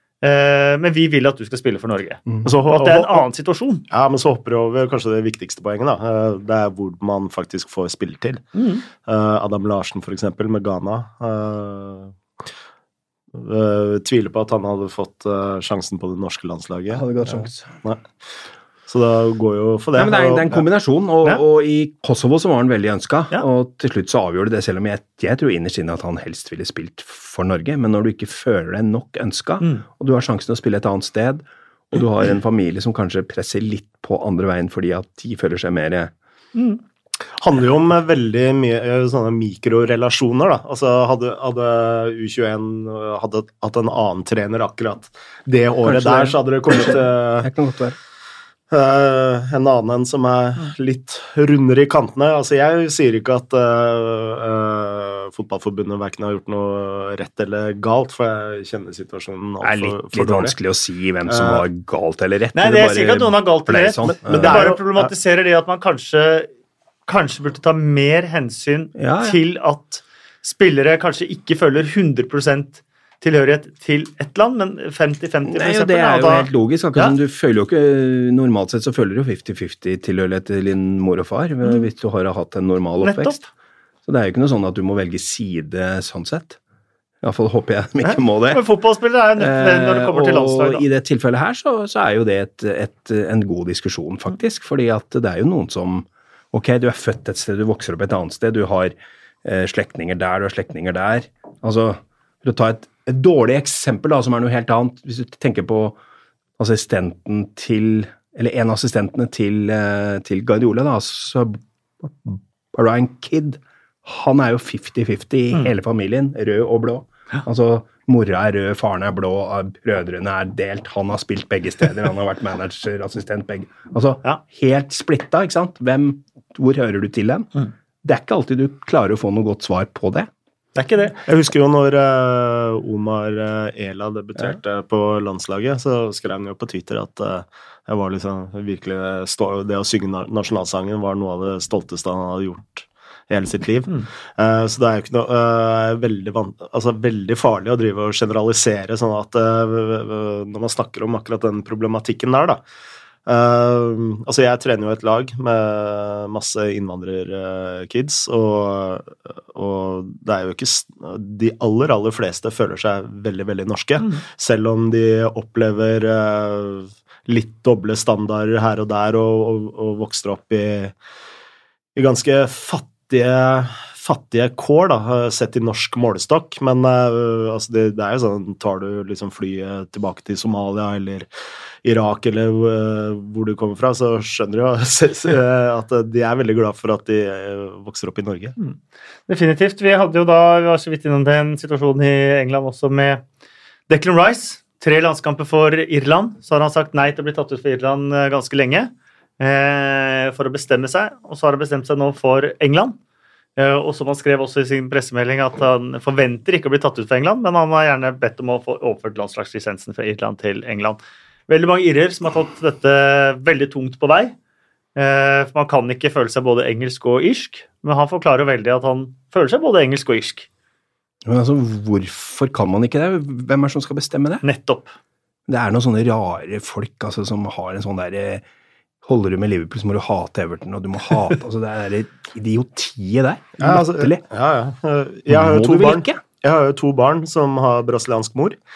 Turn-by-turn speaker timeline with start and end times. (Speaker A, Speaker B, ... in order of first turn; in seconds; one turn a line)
Speaker A: 0.2-3.8
Speaker B: 2.4-3.2
Speaker B: 3.9-12.1
Speaker A: 8.5-8.8
Speaker B: 13.3-18.0
Speaker C: 16.9-17.7
Speaker B: 18.9-20.6
Speaker C: 19.9-36.1
Speaker A: 36.5-36.8
Speaker B: 37.4-47.5
Speaker C: 45.8-48.0
Speaker B: 48.7-60.5
Speaker C: 59.6-64.7
Speaker B: 61.3-61.6
Speaker A: 62.5-66.5
Speaker B: 64.1-65.1
Speaker A: 67.1-77.2
Speaker C: 68.9-69.4
Speaker C: 75.4-83.4
Speaker A: 83.0-83.5
Speaker C: 84.0-86.6
Speaker C: 87.2-88.6
Speaker A: 88.0-90.8
Speaker C: 89.4-106.0
Speaker C: 106.6-127.5
Speaker C: 128.0-130.3
Speaker A: 130.8-131.2
Speaker B: 131.2-152.6
Speaker B: 153.2-170.9
Speaker B: 171.9-181.3
Speaker B: 181.8-188.5
Speaker A: 188.6-193.2
Speaker A: 193.9-203.0
Speaker A: 203.6-214.3
Speaker A: 214.9-220.5
Speaker C: 221.2-224.4
Speaker A: 224.4-224.9
Speaker C: 225.5-228.4
Speaker C: 229.0-234.2
Speaker B: 233.6-238.6
Speaker C: 235.3-236.2